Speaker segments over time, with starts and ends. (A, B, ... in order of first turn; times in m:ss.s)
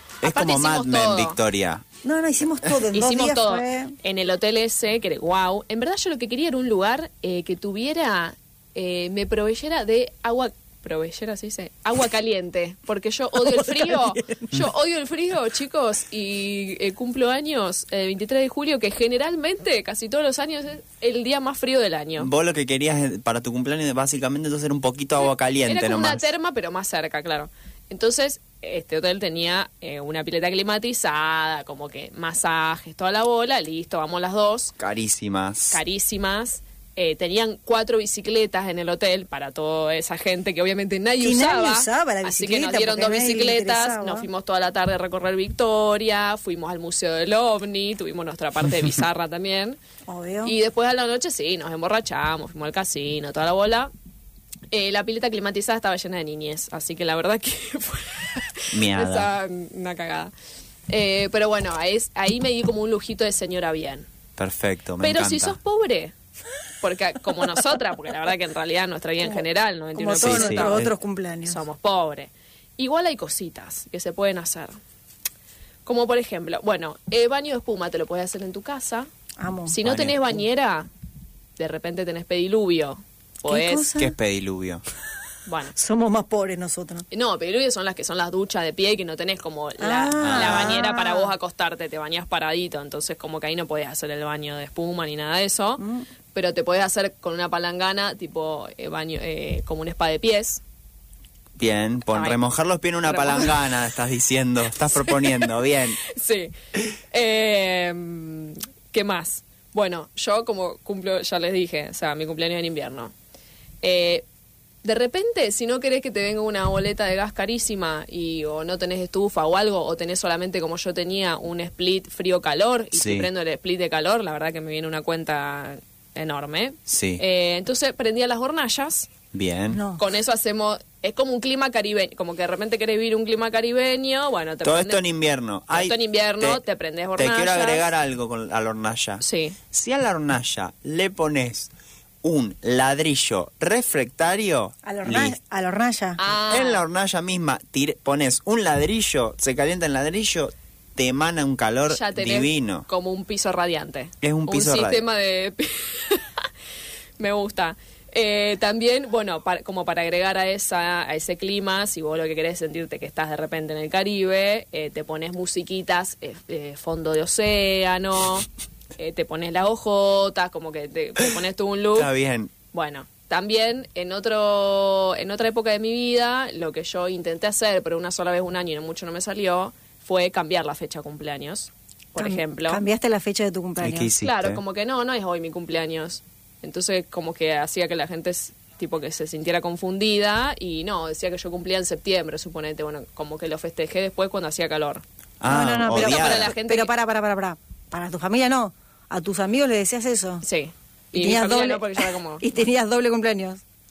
0:00.2-0:01.8 A
0:00.2-0:01.4 B
0:02.0-0:04.0 C
0:02.9-0:22.3 B
0:13.4-0:14.4 C
0:22.2-0:26.3 A
0:25.2-0:34.7 B
0:34.8-0:35.8 A
0:35.7-0:49.8 B
0:41.2-0:44.3 C
0:50.1-0:50.6 C
0:50.4-0:53.9 B
0:54.7-1:00.3 B
0:58.7-0:59.3 A
1:00.9-1:04.1 B
1:04.4-1:05.6 A
1:05.0-1:06.1 B
1:06.8-1:10.9 B
1:10.0-1:11.6 C
1:10.2-1:10.9 A
1:11.5-1:14.8 B
1:15.8-1:19.1 B
1:19.4-1:19.8 C
1:19.7-1:20.9 B
1:19.8-1:20.2 A
1:21.6-1:23.9 B
1:23.5-1:24.2 C
1:24.0-1:24.8 A
1:25.5-1:25.8 B
1:25.8-1:27.0 C
1:27.1-1:35.8 B
1:29.8-1:31.3 C
1:30.2-1:30.8 A
1:35.8-1:36.1 C
1:36.3-1:40.6 B
1:41.6-1:46.0 A
1:42.1-1:42.4 B
1:43.1-1:43.6 B
1:44.9-1:45.5 B
1:46.0-1:46.5 B
1:47.1-1:53.1 B
1:53.8-1:54.2 B
1:54.8-2:09.1 B
2:02.9-2:03.3 A
2:06.9-2:07.2 A
2:09.3-2:09.8 A
2:09.7-2:10.0 C
2:10.0-2:15.0 B
2:14.6-2:16.6 A
2:15.7-2:17.9 B
2:17.2-2:21.7 A
2:19.2-2:19.6 B
2:22.2-2:25.4 A
2:24.8-2:26.2 C
2:26.2-2:26.8 B
2:26.5-2:32.9 A
2:31.9-2:36.5 B
2:34.2-2:35.0 A
2:37.2-2:52.1 B
2:52.0-2:52.5 A
2:52.7-3:02.8 B
3:02.2-3:04.1 C
3:03.8-3:04.6 A
3:04.2-3:15.0 B
3:15.4-3:16.5 A
3:15.5-3:20.4 C
3:15.9-3:16.9 B
3:20.4-3:22.5 B
3:21.1-3:23.6 C